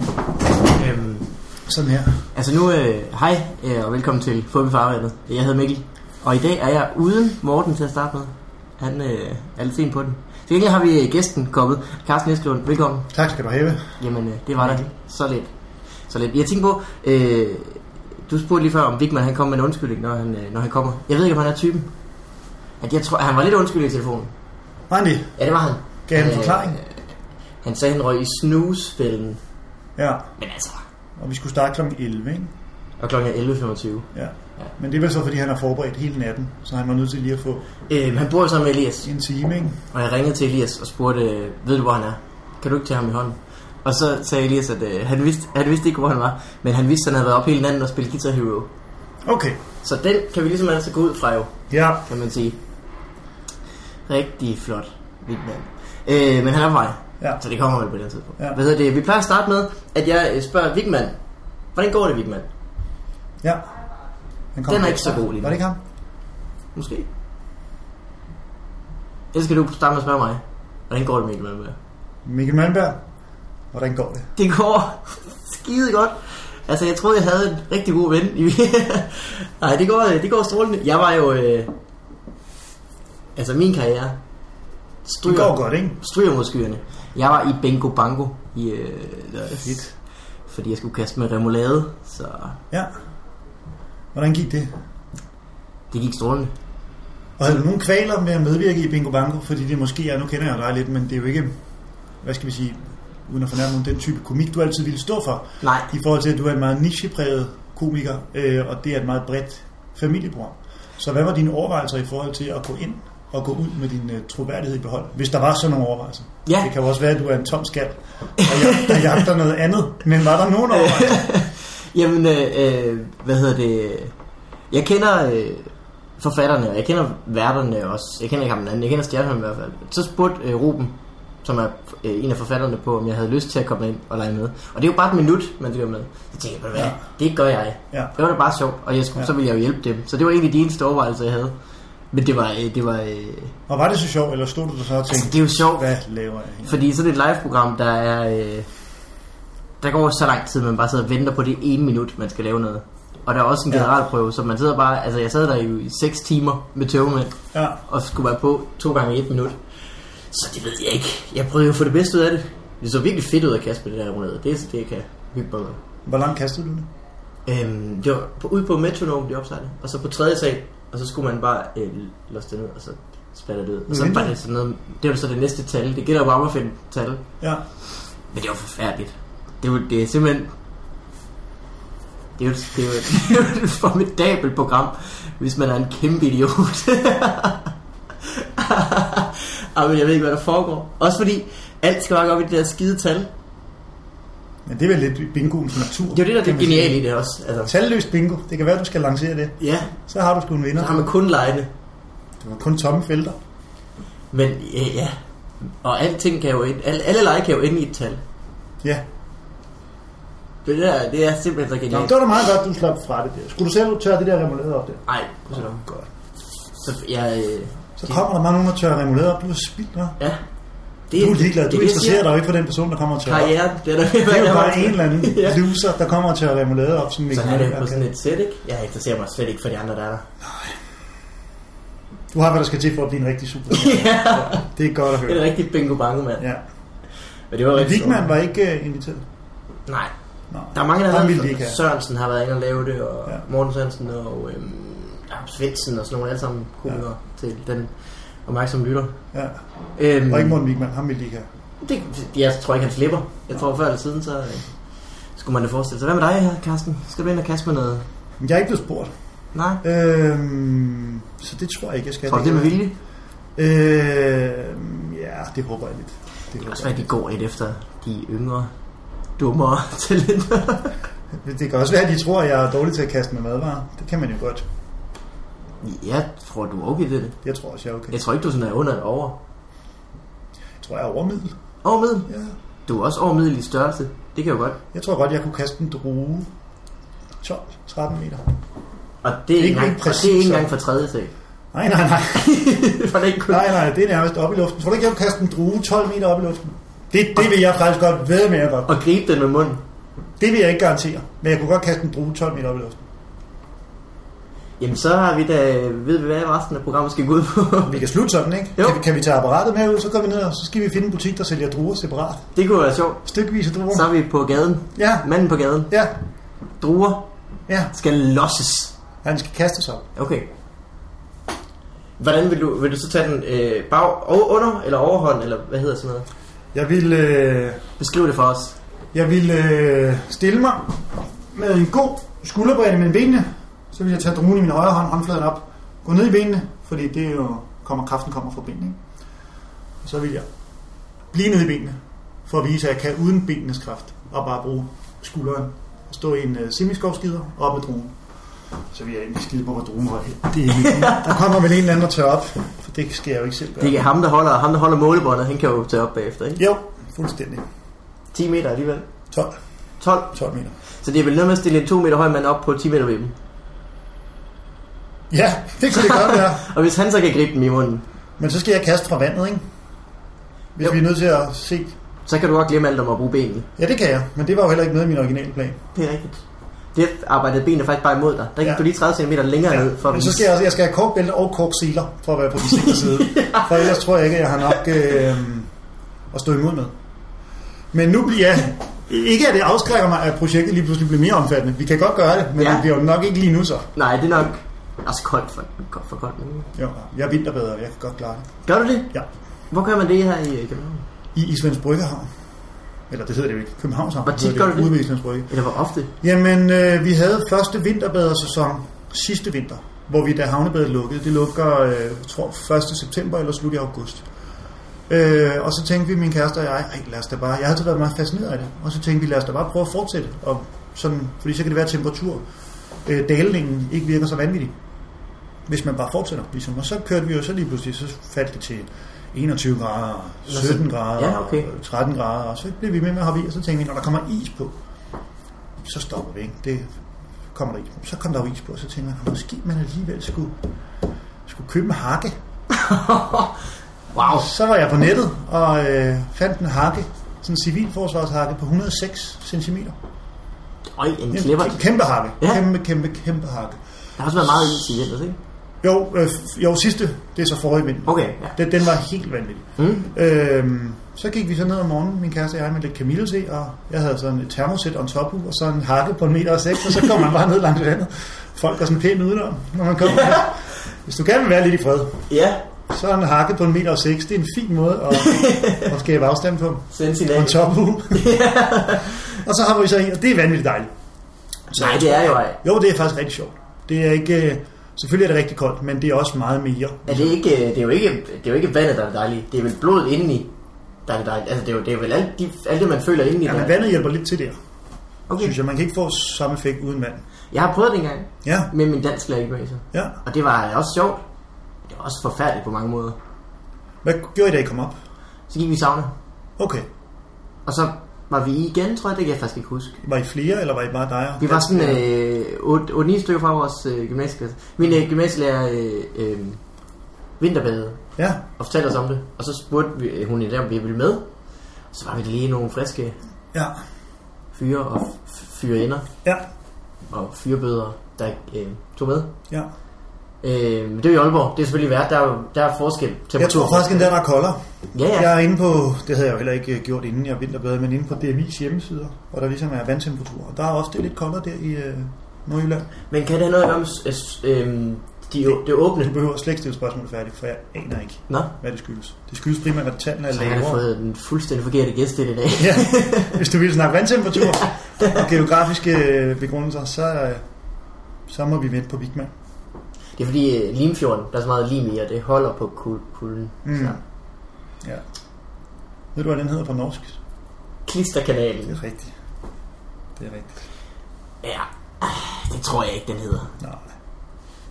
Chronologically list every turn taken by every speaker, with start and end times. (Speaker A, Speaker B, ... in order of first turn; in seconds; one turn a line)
Speaker A: 0.5-1.3
Speaker B: 1.7-2.2
Speaker A: 2.3-13.1
Speaker B: 13.1-14.0
Speaker A: 14.0-15.5
Speaker A: 16.1-21.9
Speaker A: 22.8-24.3
Speaker B: 24.9-25.4
Speaker A: 25.4-27.0
Speaker B: 26.1-26.8
Speaker A: 27.6-29.4
Speaker B: 30.0-30.3
Speaker A: 30.4-30.8
Speaker B: 31.2-32.5
Speaker A: 33.0-34.1
Speaker B: 34.1-37.7
Speaker A: 37.9-39.1
Speaker B: 39.0-39.8
Speaker A: 39.9-48.7
Speaker B: 49.2-49.6
Speaker A: 49.8-52.6
Speaker B: 51.7-52.0
Speaker A: 54.1-61.2
Speaker A: 61.8-62.5
Speaker B: 64.5-65.8
Speaker A: 64.7-65.6
Speaker A: 66.8-67.1
Speaker A: 69.3-71.8
Speaker B: 72.2-73.0
Speaker B: 73.7-74.3
Speaker A: 74.4-81.7
Speaker A: 83.4-84.2
Speaker A: 85.0-89.9
Speaker B: 85.2-86.0
Speaker B: 89.6-89.9
Speaker A: 90.5-92.6
Speaker B: 94.1-94.7
Speaker A: 95.9-96.5
Speaker B: 97.4-101.6
Speaker B: 102.2-121.3
Speaker A: 105.6-105.9
Speaker A: 118.4-119.2
Speaker A: 120.7-124.1
Speaker A: 124.7-141.6
Speaker B: 136.7-137.0
Speaker A: 142.1-143.6
Speaker B: 143.7-146.8
Speaker A: 145.1-145.9
Speaker A: 146.6-148.7
Speaker A: 149.8-159.6
Speaker B: 157.5-157.8
Speaker A: 160.3-165.8
Speaker B: 166.1-166.9
Speaker A: 167.5-177.2
Speaker B: 173.9-174.3
Speaker A: 178.3-180.5
Speaker A: 182.4-187.7
Speaker A: 188.2-193.3
Speaker B: 194.7-197.0
Speaker A: 196.1-197.7
Speaker B: 197.7-201.1
Speaker A: 199.6-199.9
Speaker A: 200.8-201.7
Speaker B: 202.4-203.4
Speaker A: 204.3-208.2
Speaker A: 210.7-212.2
Speaker B: 211.9-216.1
Speaker A: 215.1-215.8
Speaker A: 216.8-218.2
Speaker B: 218.0-220.2
Speaker A: 221.1-222.2
Speaker B: 221.2-223.5
Speaker A: 223.3-225.6
Speaker B: 224.2-228.0
Speaker A: 227.3-230.3
Speaker B: 230.4-230.8
Speaker B: 232.3-235.5
Speaker A: 233.7-234.7
Speaker A: 235.2-236.4
Speaker A: 237.5-238.3
Speaker B: 237.7-239.2
Speaker A: 239.9-240.1
Speaker B: 240.5-241.8
Speaker A: 240.7-247.9
Speaker A: 248.5-249.2
Speaker B: 249.3-249.6
Speaker A: 250.0-250.6
Speaker B: 250.3-251.5
Speaker A: 251.8-254.7
Speaker A: 255.4-258.1
Speaker B: 258.4-259.1
Speaker A: 259.5-259.8
Speaker B: 259.8-262.8
Speaker A: 262.3-262.9
Speaker B: 263.6-267.1
Speaker A: 266.6-268.7
Speaker A: 269.4-270.9
Speaker B: 271.3-274.6
Speaker A: 275.8-277.4
Speaker B: 277.4-278.2
Speaker A: 278.1-279.4
Speaker B: 280.8-281.6
Speaker A: 281.8-282.3
Speaker B: 282.3-282.6
Speaker A: 282.9-284.8
Speaker B: 284.9-286.5
Speaker B: 287.4-288.5
Speaker A: 289.2-291.3
Speaker B: 289.6-290.7
Speaker B: 291.7-292.5
Speaker A: 292.4-293.7
Speaker B: 293.5-298.9
Speaker A: 298.9-299.8
Speaker B: 300.4-303.0
Speaker A: 304.8-308.0
Speaker B: 307.9-312.4
Speaker A: 312.6-313.2
Speaker B: 313.2-314.1
Speaker A: 313.9-315.9
Speaker B: 314.9-315.3
Speaker B: 315.9-316.2
Speaker A: 316.8-317.3
Speaker A: 317.9-318.9
Speaker B: 319.2-320.1
Speaker A: 320.2-320.5
Speaker A: 322.2-326.3
Speaker B: 326.7-327.9
Speaker A: 328.0-328.8
Speaker B: 329.1-339.0
Speaker B: 340.0-340.5
Speaker B: 341.3-348.2
Speaker B: 348.9-354.1
Speaker A: 350.7-351.5
Speaker A: 353.8-356.6
Speaker B: 356.6-357.6
Speaker A: 358.3-359.1
Speaker A: 360.0-360.3
Speaker B: 360.3-360.8
Speaker A: 361.0-363.4
Speaker B: 365.3-366.7
Speaker A: 366.0-368.0
Speaker B: 368.4-369.6
Speaker B: 370.8-371.9
Speaker A: 372.3-373.7
Speaker B: 373.8-375.8
Speaker A: 375.9-376.4
Speaker A: 376.9-380.5
Speaker B: 379.7-385.7
Speaker A: 382.6-384.0
Speaker B: 386.3-386.9
Speaker B: 387.9-393.9
Speaker A: 392.6-392.8
Speaker A: 393.9-396.7
Speaker B: 396.8-398.5
Speaker A: 398.7-399.1
Speaker A: 399.7-401.0
Speaker B: 401.4-402.3
Speaker B: 403.1-405.5
Speaker A: 404.2-404.9
Speaker A: 405.5-406.1
Speaker B: 406.2-414.2
Speaker B: 415.1-422.4
Speaker B: 423.1-424.8
Speaker B: 425.7-434.8
Speaker A: 430.5-431.7
Speaker B: 435.8-436.9
Speaker B: 437.5-440.6
Speaker B: 441.5-442.3
Speaker A: 442.7-443.6
Speaker A: 444.1-444.5
Speaker B: 444.2-450.0
Speaker A: 450.9-451.8
Speaker B: 451.3-453.8
Speaker A: 454.2-455.4
Speaker B: 455.8-472.3
Speaker A: 458.1-458.6
Speaker A: 459.8-460.1
Speaker A: 472.3-472.6
Speaker B: 472.9-478.3
Speaker A: 475.2-475.9
Speaker A: 476.9-479.4
Speaker B: 479.2-480.9
Speaker B: 481.7-487.4
Speaker A: 481.8-482.6
Speaker A: 487.1-490.5
Speaker A: 491.1-493.8
Speaker B: 493.4-494.6
Speaker A: 495.3-495.6
Speaker B: 495.4-497.2
Speaker A: 497.5-501.2
Speaker B: 498.4-498.7
Speaker B: 499.9-500.2
Speaker A: 501.9-503.2
Speaker B: 504.0-505.0
Speaker A: 505.5-506.1
Speaker B: 506.6-506.9
Speaker A: 507.7-509.9
Speaker B: 510.0-512.0
Speaker A: 511.4-516.6
Speaker A: 517.4-518.0
Speaker B: 518.2-518.4
Speaker A: 518.6-521.3
Speaker A: 521.9-523.2
Speaker A: 524.5-526.1
Speaker A: 527.1-529.3
Speaker A: 530.4-534.2
Speaker B: 533.4-534.6
Speaker A: 534.9-535.3
Speaker B: 535.1-542.9
Speaker A: 543.1-546.1
Speaker B: 545.5-550.8
Speaker A: 550.3-553.4
Speaker B: 552.6-557.4
Speaker A: 554.6-555.2
Speaker B: 558.3-559.3
Speaker A: 560.2-564.0
Speaker B: 563.6-564.0
Speaker B: 566.1-567.2
Speaker A: 567.9-568.8
Speaker B: 568.7-569.1
Speaker B: 570.2-570.7
Speaker A: 571.4-573.5
Speaker B: 573.6-573.9